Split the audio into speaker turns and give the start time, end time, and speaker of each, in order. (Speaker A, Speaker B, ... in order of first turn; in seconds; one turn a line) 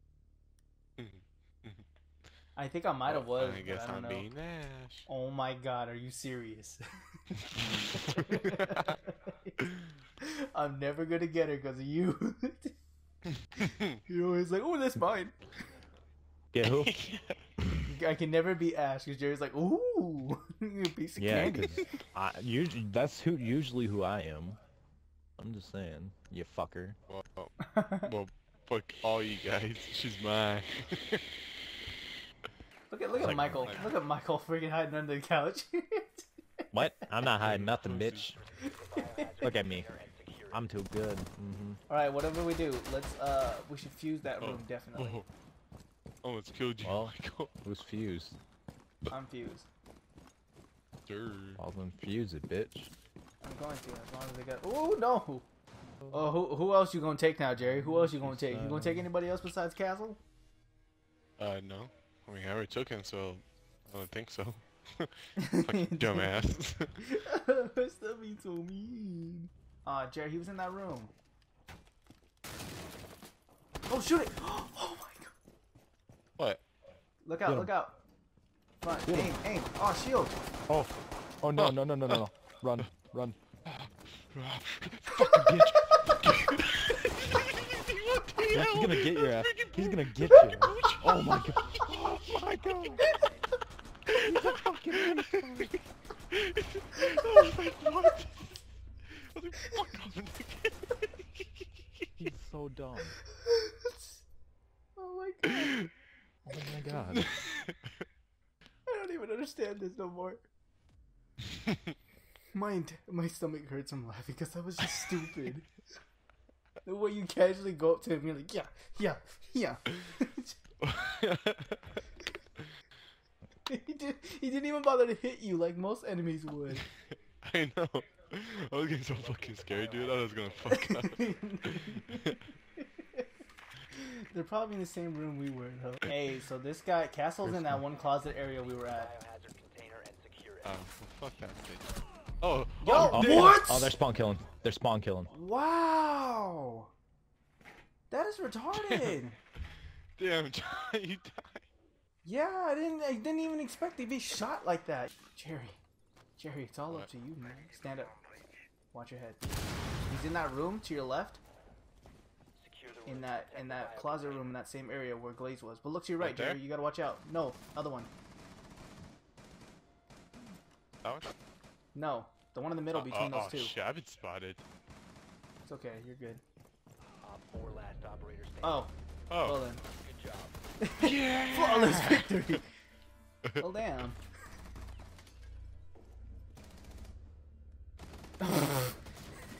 Speaker A: 1.0-1.9
Speaker B: 2.5-4.3
Speaker A: 3.0-5.1
Speaker B: 5.1-6.8
Speaker A: 7.4-9.0
Speaker B: 8.0-9.6
Speaker B: 10.2-12.8
Speaker A: 13.6-14.0
Speaker B: 14.1-15.3
Speaker C: 16.5-16.9
Speaker A: 16.6-17.4
Speaker B: 17.9-21.8
Speaker C: 21.2-24.6
Speaker A: 21.3-21.8
Speaker C: 25.4-27.0
Speaker A: 27.1-31.2
Speaker B: 27.6-28.1
Speaker B: 32.9-36.2
Speaker A: 33.1-34.0
Speaker C: 33.2-33.8
Speaker C: 36.7-38.4
Speaker A: 37.4-38.4
Speaker D: 38.3-40.6
Speaker B: 38.6-39.3
Speaker C: 39.4-39.9
Speaker C: 40.5-41.8
Speaker B: 41.9-45.2
Speaker A: 44.4-45.3
Speaker A: 46.2-47.5
Speaker C: 46.8-48.4
Speaker B: 49.1-49.7
Speaker A: 51.0-51.6
Speaker C: 51.6-52.9
Speaker B: 53.4-55.5
Speaker C: 56.0-56.3
Speaker B: 56.1-60.2
Speaker C: 57.6-59.1
Speaker A: 61.4-66.9
Speaker B: 65.4-66.4
Speaker B: 67.0-71.1
Speaker B: 73.9-75.3
Speaker B: 77.2-78.0
Speaker C: 77.5-77.7
Speaker B: 78.8-80.4
Speaker C: 79.0-79.4
Speaker C: 80.7-83.4
Speaker A: 81.5-82.2
Speaker A: 83.7-91.2
Speaker C: 85.2-85.9
Speaker C: 88.5-93.1
Speaker D: 92.8-93.2
Speaker A: 94.1-94.4
Speaker C: 94.1-95.7
Speaker A: 94.9-95.8
Speaker A: 96.3-98.6
Speaker A: 99.3-102.1
Speaker C: 102.2-103.2
Speaker B: 103.3-104.2
Speaker B: 105.0-105.8
Speaker C: 106.5-107.3
Speaker A: 106.9-108.0
Speaker B: 108.9-110.5
Speaker B: 112.5-115.7
Speaker B: 116.8-120.5
Speaker A: 120.8-122.0
Speaker B: 123.7-126.8
Speaker A: 127.4-132.4
Speaker D: 129.1-130.8
Speaker B: 130.7-133.3
Speaker B: 133.9-139.2
Speaker C: 137.4-137.8
Speaker D: 138.4-140.8
Speaker A: 140.6-143.7
Speaker B: 142.8-143.9
Speaker C: 143.0-145.3
Speaker B: 145.3-146.9
Speaker B: 148.1-149.4
Speaker A: 148.7-149.2
Speaker A: 150.2-151.7
Speaker B: 152.2-155.8
Speaker B: 156.4-158.1
Speaker B: 158.9-159.4
Speaker B: 160.0-161.4
Speaker D: 162.6-164.4
Speaker B: 163.0-168.1
Speaker A: 166.2-166.6
Speaker A: 171.0-171.3
Speaker B: 171.9-173.7
Speaker A: 172.9-174.6
Speaker B: 175.6-176.4
Speaker D: 177.2-178.8
Speaker B: 178.6-178.9
Speaker A: 179.3-179.6
Speaker B: 179.4-179.8
Speaker D: 179.8-180.5
Speaker B: 180.8-182.6
Speaker A: 181.0-182.6
Speaker B: 183.6-184.2
Speaker B: 188.4-189.0